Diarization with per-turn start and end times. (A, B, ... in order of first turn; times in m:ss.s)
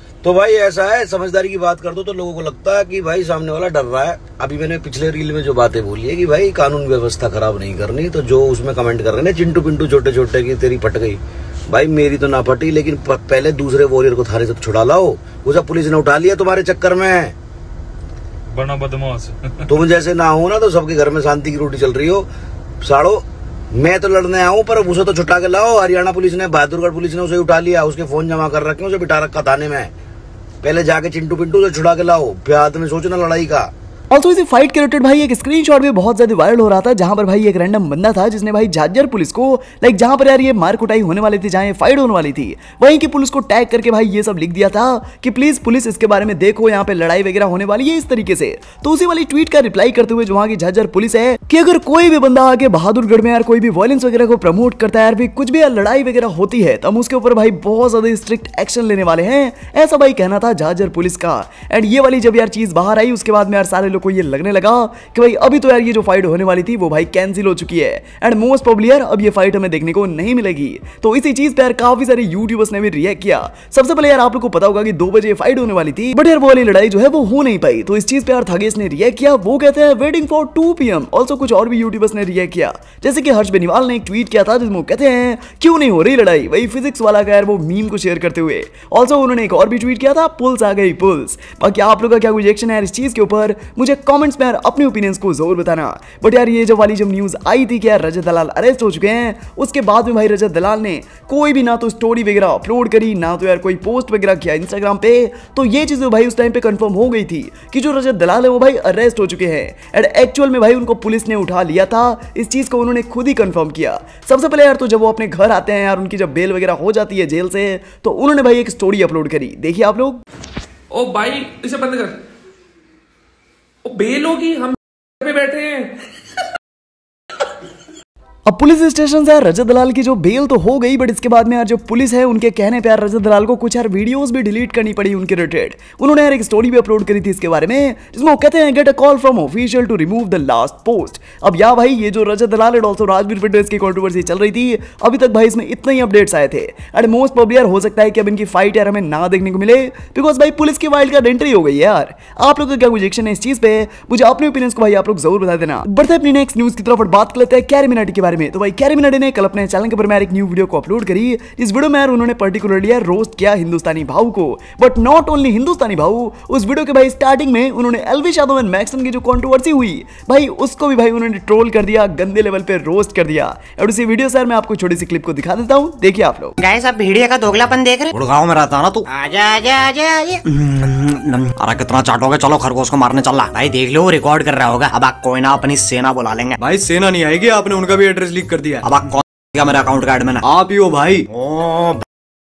0:00.2-0:17.4 A
0:18.5-0:19.6 B
0:19.7-0:22.3 A
0:22.8-0:29.9 A
0:30.6-0:33.7 A
0:34.1-2:00.2 C
2:00.9-2:02.2 D
2:03.9-2:05.9 D
2:08.5-2:56.5 C
2:56.6-2:58.5 E
2:58.2-2:59.0 F
2:59.1-3:00.4 E
3:00.8-3:03.7 F
3:03.0-3:06.6 E
3:04.3-3:06.5 F
3:06.6-3:08.8 B
3:08.9-3:10.4 F
3:09.8-3:10.3 E
3:10.4-3:11.2 B
3:11.3-3:12.0 F